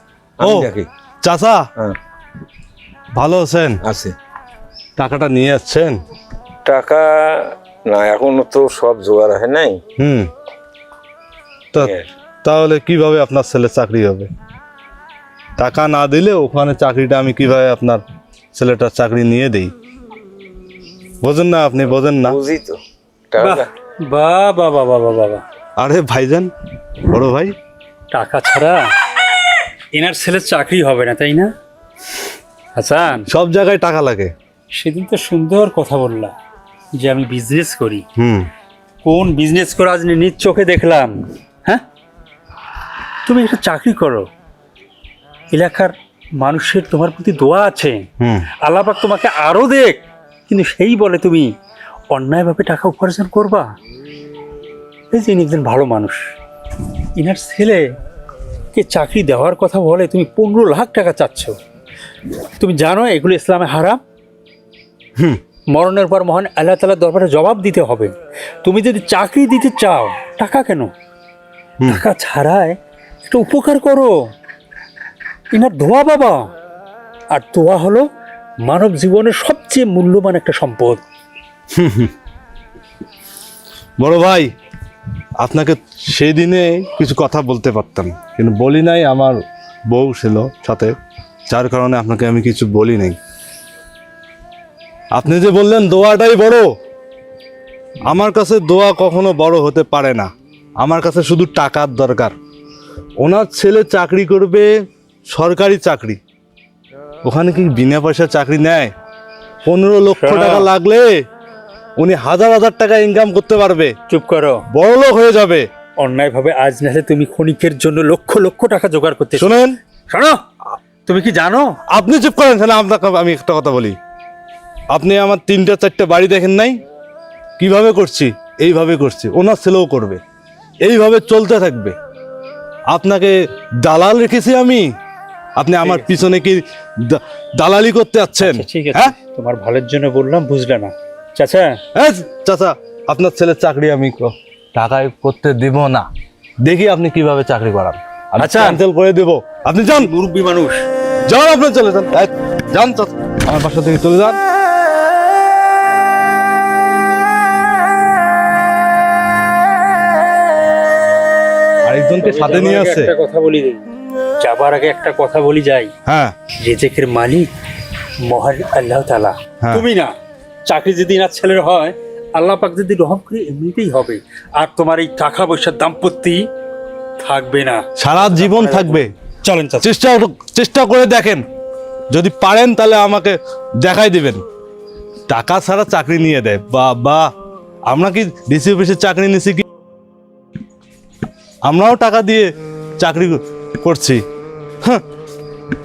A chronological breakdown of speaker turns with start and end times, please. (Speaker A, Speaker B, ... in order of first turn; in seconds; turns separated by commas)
Speaker A: 0.4-0.9, Speaker B: 0.4-0.7, Speaker B: 1.2-1.6, Speaker B: 3.1-3.8, Speaker A: 3.8-4.1, Speaker B: 5.0-6.0, Speaker A: 6.7-9.8, Speaker B: 10.0-10.3, Speaker A: 11.7-12.1, Speaker B: 12.4-14.3, Speaker B: 15.6-18.0, Speaker B: 18.5-19.7, Speaker B: 21.2-22.4, Speaker A: 22.2-22.8, Speaker A: 23.3-23.7, Speaker C: 23.4-25.4, Speaker B: 25.8-27.5, Speaker C: 28.1-28.9, Speaker C: 29.9-31.5, Speaker C: 32.8-33.3, Speaker B: 33.3-34.3, Speaker C: 34.7-36.3, Speaker C: 37.0-38.0, Speaker B: 38.2-38.5, Speaker C: 39.0-41.8, Speaker C: 43.2-44.3, Speaker C: 45.5-48.1, Speaker B: 48.2-48.5, Speaker C: 48.6-51.5, Speaker C: 52.1-53.7, Speaker C: 55.1-56.2, Speaker C: 57.1-57.9, Speaker C: 58.7-61.6, Speaker C: 62.6-64.0, Speaker C: 65.7-70.9, Speaker C: 71.8-74.1, Speaker C: 75.5-76.5, Speaker C: 77.3-78.1, Speaker C: 78.6-81.0, Speaker B: 81.7-82.1, Speaker B: 84.0-84.5, Speaker B: 85.4-90.9, Speaker B: 91.5-93.2, Speaker B: 95.1-96.7, Speaker B: 98.1-102.3, Speaker B: 103.2-106.2, Speaker B: 107.2-108.9, Speaker B: 109.6-111.2, Speaker C: 110.1-110.7, Speaker B: 112.0-113.9, Speaker C: 114.1-114.7, Speaker B: 114.7-115.7, Speaker C: 116.0-120.4, Speaker B: 119.4-119.8, Speaker C: 121.1-121.8, Speaker B: 121.9-124.0, Speaker B: 124.9-126.8, Speaker B: 127.6-130.2, Speaker B: 130.8-131.9, Speaker B: 132.9-134.9, Speaker B: 135.6-139.2, Speaker C: 135.8-136.1, Speaker C: 138.4-141.8, Speaker B: 141.9-146.1, Speaker B: 146.6-150.1, Speaker C: 148.4-148.8, Speaker C: 150.0-150.9, Speaker B: 151.3-154.4, Speaker B: 161.8-163.1, Speaker C: 162.2-163.8, Speaker C: 164.4-165.9, Speaker B: 166.1-166.3, Speaker C: 166.6-167.5, Speaker C: 168.2-170.1, Speaker C: 170.7-176.4, Speaker C: 177.2-179.9, Speaker B: 178.0-179.1, Speaker B: 179.8-181.4, Speaker B: 182.1-184.4, Speaker B: 185.3-187.3, Speaker B: 187.9-189.7, Speaker B: 191.7-192.5, Speaker B: 193.0-194.2